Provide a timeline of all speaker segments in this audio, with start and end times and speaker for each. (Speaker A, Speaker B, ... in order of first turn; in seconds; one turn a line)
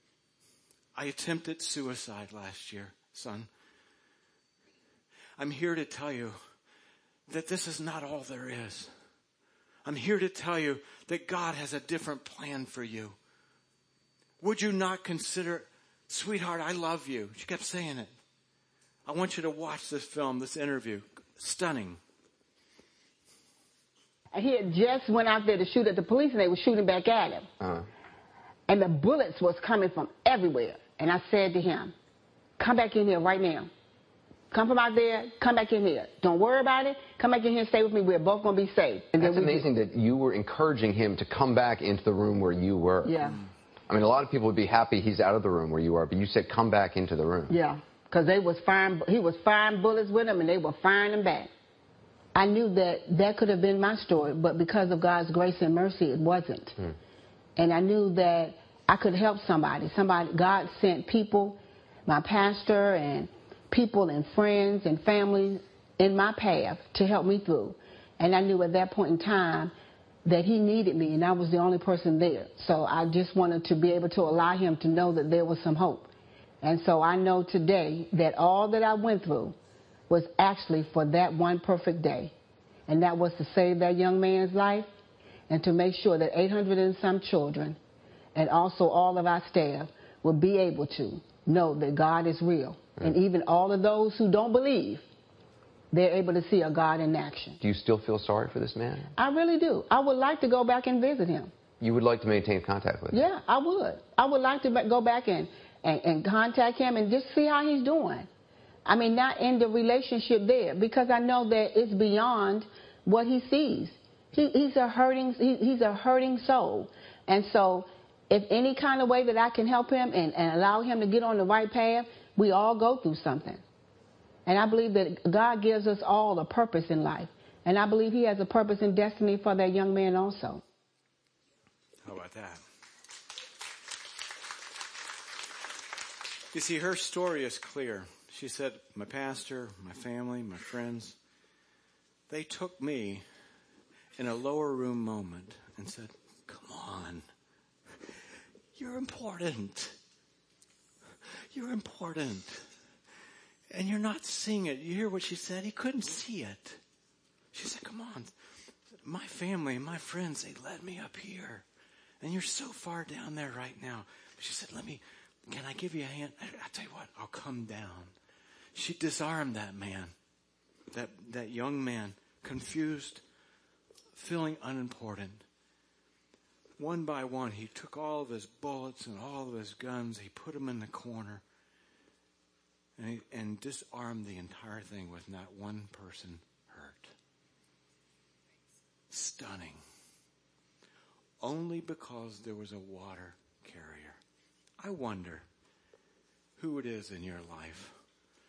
Speaker A: 0.9-3.5
Speaker A: 5.4-6.4
Speaker A: 7.3-8.9
Speaker A: 9.9-13.2
Speaker A: 14.4-18.1
Speaker A: 19.1-22.0
Speaker B: 24.3-27.5
Speaker B: 28.7-31.9
Speaker B: 32.6-33.7
Speaker B: 34.5-39.6
Speaker C: 39.2-43.1
Speaker B: 43.0-43.4
Speaker C: 43.9-47.5
Speaker B: 47.5-51.5
Speaker B: 52.4-56.8
Speaker B: 57.6-69.7
Speaker B: 70.2-76.1
Speaker B: 76.6-79.5
Speaker B: 80.1-82.3
Speaker B: 82.9-84.9
Speaker B: 85.5-87.8
Speaker B: 88.3-95.1
Speaker B: 95.9-97.6
Speaker C: 97.6-99.1
Speaker B: 99.2-101.5
Speaker C: 101.8-103.2
Speaker B: 103.1-108.3
Speaker B: 108.9-123.6
Speaker B: 124.5-130.6
Speaker A: 132.1-132.6
Speaker A: 136.5-141.2
Speaker A: 142.3-143.2
Speaker A: 144.2-147.3
Speaker A: 148.8-150.0
Speaker A: 151.5-152.7
Speaker A: 153.7-156.8
Speaker A: 157.5-158.3
Speaker A: 159.0-161.7
Speaker A: 162.2-168.1
Speaker A: 168.7-170.1
Speaker A: 170.9-173.2
Speaker A: 174.2-175.5
Speaker A: 176.8-181.4
Speaker A: 183.0-187.1
Speaker A: 189.1-189.8
Speaker A: 191.4-194.2
Speaker A: 194.8-195.5
Speaker A: 196.6-197.9